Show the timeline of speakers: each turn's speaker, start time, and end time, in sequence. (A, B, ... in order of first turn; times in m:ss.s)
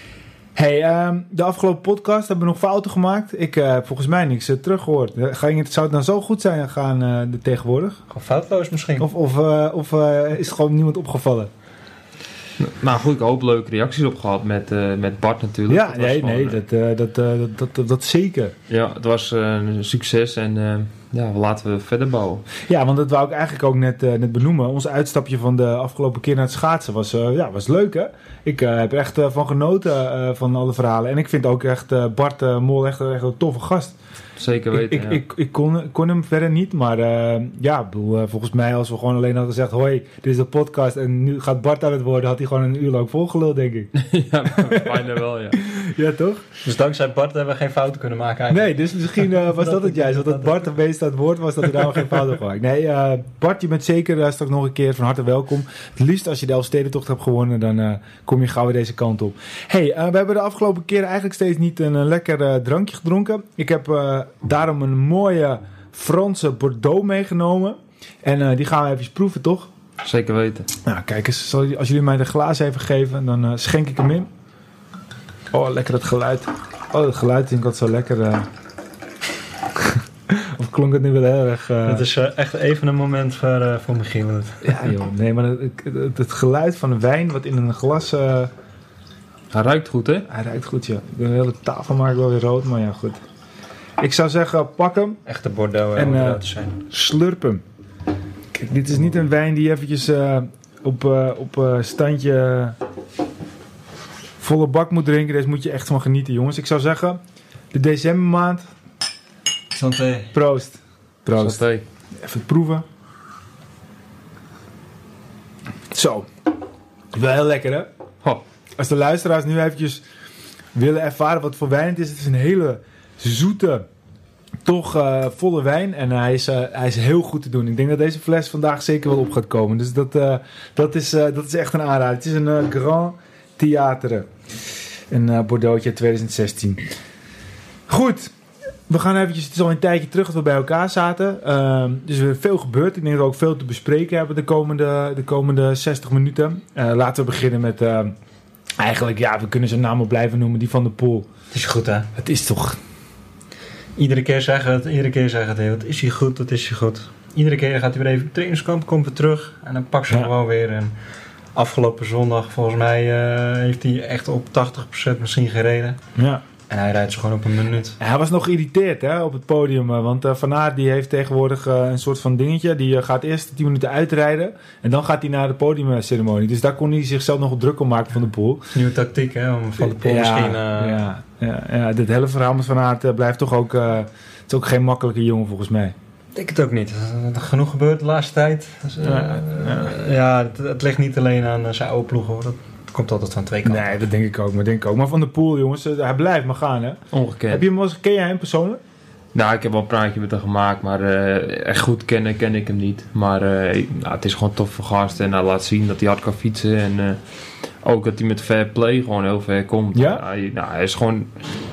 0:00.6-0:08.0 A
0:08.1-0:09.1 B
0:09.0-0:11.5 A
0:12.6-0:16.6 C
0:15.7-0:18.5 A
0:18.7-0:22.4 C
0:22.6-0:34.0 A
0:34.4-0:35.2 C
0:34.7-0:43.9 A
0:43.9-0:45.6 C
0:44.6-0:45.0 A
0:45.5-0:46.4 A
0:46.6-0:50.6 B
0:48.5-1:09.7 A
0:51.7-0:52.3 B
1:10.0-1:10.7 C
1:10.8-1:14.3 A
1:15.5-1:18.5 A
1:19.8-1:22.0 A
1:21.8-1:24.6 B
1:24.6-1:28.5 A
1:29.5-1:30.3 C
1:30.3-1:33.2 A
1:34.0-1:35.2 A
1:35.2-1:36.8 B
1:35.9-1:37.6 A
1:38.5-1:42.8 A
1:44.4-1:47.2 A
1:47.7-1:48.6 A
1:49.7-1:50.3 B
1:50.3-1:51.6 A
1:51.4-1:51.8 C
1:52.2-1:52.8 A
1:55.9-1:56.3 A
1:57.1-1:57.9 A
1:58.8-2:00.0 A
2:00.7-2:03.8 A
2:04.6-2:14.3 A
2:15.1-2:16.8 A
2:17.9-2:18.3 A
2:18.9-2:28.1 A
2:28.8-2:31.3 A
2:31.5-2:32.1 B
2:32.2-2:32.8 A
2:34.0-2:40.9 B
2:41.5-2:46.0 B
2:46.2-2:46.4 A
2:46.7-2:48.0 B
2:48.0-2:58.7 A
2:58.7-3:01.0 B
2:59.8-3:05.9 A
3:06.3-3:14.0 B
3:09.0-3:09.9 A
3:13.6-3:18.8 A
3:17.1-3:17.6 C
3:19.3-3:27.2 C
3:27.8-3:31.3 C
3:29.9-3:30.2 A